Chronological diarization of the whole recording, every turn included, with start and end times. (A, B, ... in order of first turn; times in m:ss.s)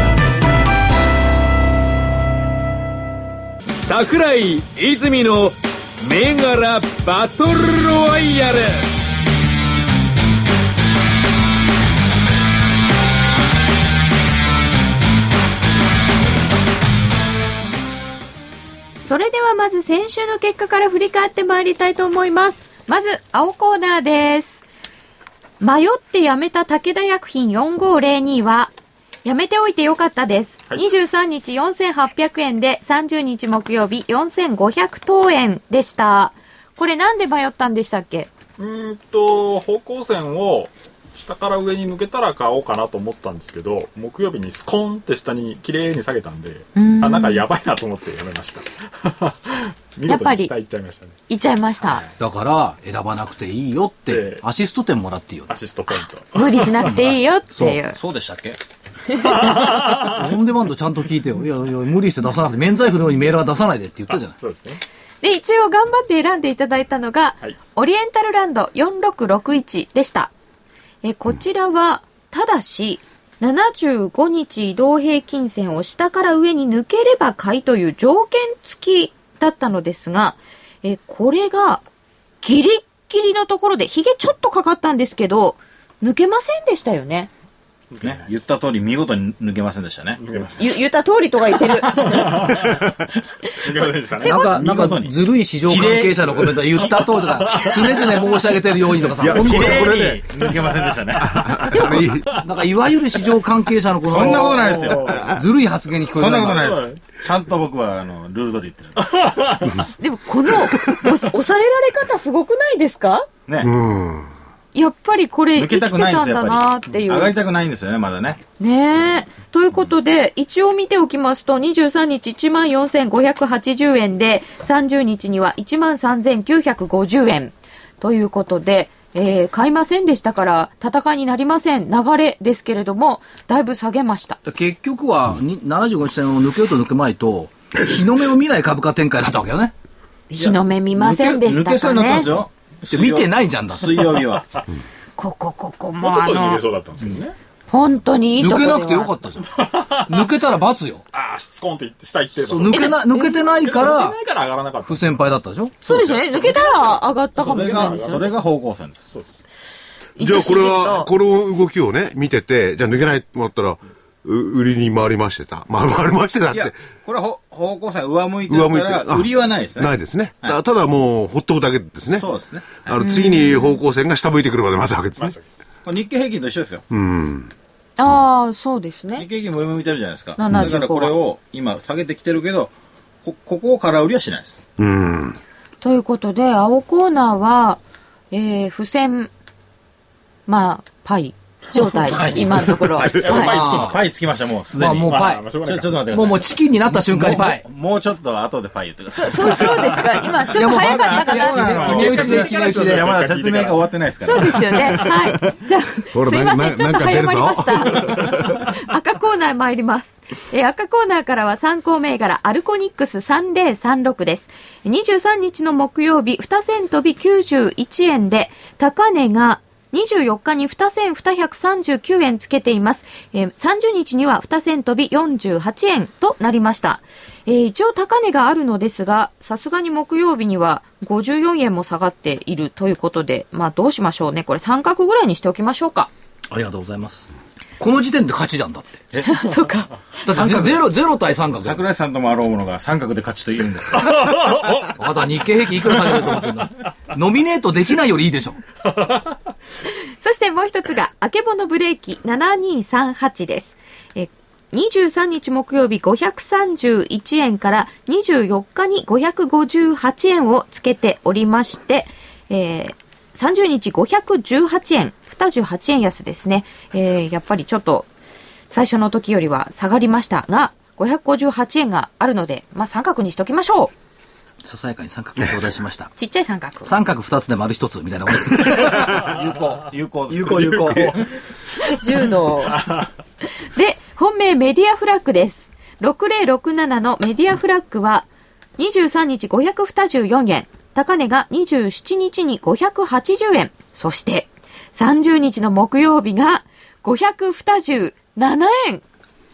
0:03.8-0:08.9 A
0:19.0-0:24.6 B
0:25.6-0:28.7 B
0:29.2-0:38.3 B
0:38.6-0:51.2 C
0:46.8-0:47.4 B
0:50.1-0:50.5 B
0:51.3-0:52.0 B
0:51.8-0:52.1 C
0:52.2-0:55.5 D
0:54.1-0:54.4 C
0:55.5-0:57.1 C
0:56.3-0:58.0 B
0:57.5-0:57.8 D
0:57.9-0:58.6 E
0:59.1-0:59.7 B
0:59.1-1:00.2 C
0:59.9-1:04.3 D
1:04.1-1:04.8 C
1:05.2-1:10.3 B
1:11.0-1:21.8 B
1:22.4-1:27.3 B
1:27.9-1:28.4 C
1:28.0-1:30.6 E
1:30.2-1:30.8 C
1:30.6-1:32.4 B
1:31.9-1:32.8 C
1:33.5-1:34.4 C
1:34.2-1:34.5 B
1:34.2-1:40.0 D
1:34.4-1:37.0 E
1:37.0-1:38.3 C
1:39.2-1:40.2 F
1:39.3-1:41.5 E
1:39.9-1:42.0 C
1:41.2-1:42.3 F
1:41.7-1:42.1 B
1:42.4-1:46.7 D
1:44.0-1:45.3 E
1:44.1-1:45.2 C
1:46.1-1:49.3 E
1:46.4-1:47.1 C
1:49.0-1:49.8 C
1:50.0-1:53.3 B
1:53.5-1:53.7 E
1:53.6-1:54.3 F
1:54.7-1:57.4 B
1:55.5-1:58.4 E
1:58.6-2:14.4 B
2:14.4-2:19.7 D
2:20.3-2:22.3 B
2:20.4-2:24.5 E
2:22.9-2:24.1 D
2:25.2-2:26.6 B
2:26.0-2:27.4 C
2:27.7-2:29.1 B
2:28.4-2:31.0 D
2:29.6-2:30.3 C
2:31.1-2:35.2 C
2:32.4-2:34.2 D
2:32.7-2:33.4 B
2:34.8-2:35.8 D
2:35.8-2:38.3 B
2:35.9-2:36.7 E
2:36.3-2:38.3 C
2:37.4-2:39.1 E
2:39.1-2:39.4 C
2:40.2-2:41.1 B
2:40.2-2:46.8 F
2:46.5-2:50.6 E
2:48.5-2:55.4 F
2:52.1-2:53.1 E
2:53.0-2:53.8 B
2:55.2-2:55.4 C
2:55.8-2:56.8 E
2:56.9-2:57.5 F
2:58.0-2:59.3 B
2:59.2-3:02.7 E
3:00.4-3:01.2 B
3:03.2-3:04.6 E
3:04.8-3:05.4 F
3:05.8-3:07.8 B
3:08.3-3:09.3 B
3:10.5-3:13.6 B
3:12.1-3:12.4 C
3:12.1-3:24.8 E
3:13.0-3:14.0 C
3:13.4-3:14.0 D
3:14.7-3:15.4 D
3:14.8-3:16.4 C
3:16.1-3:17.6 D
3:19.1-3:22.5 B
3:19.7-3:20.0 C
3:20.5-3:23.2 D
3:21.7-3:25.1 C
3:24.2-3:56.1 B
3:26.1-3:28.6 F
3:27.9-3:28.4 C
3:56.5-3:59.3 D
3:59.2-4:00.3 B
4:00.2-4:01.8 D
4:00.4-4:00.8 E
4:01.6-4:04.5 E
4:04.1-4:04.9 C
4:05.0-4:08.6 D
4:10.2-4:28.1 B
4:28.7-4:33.9 B
4:34.6-4:36.1 D
4:36.2-4:36.9 B
4:36.8-4:39.2 D
4:38.8-4:41.2 E
4:40.3-4:41.1 D
4:40.8-4:41.3 C
4:41.8-4:42.8 B
4:42.6-4:43.1 C
4:43.7-4:59.0 B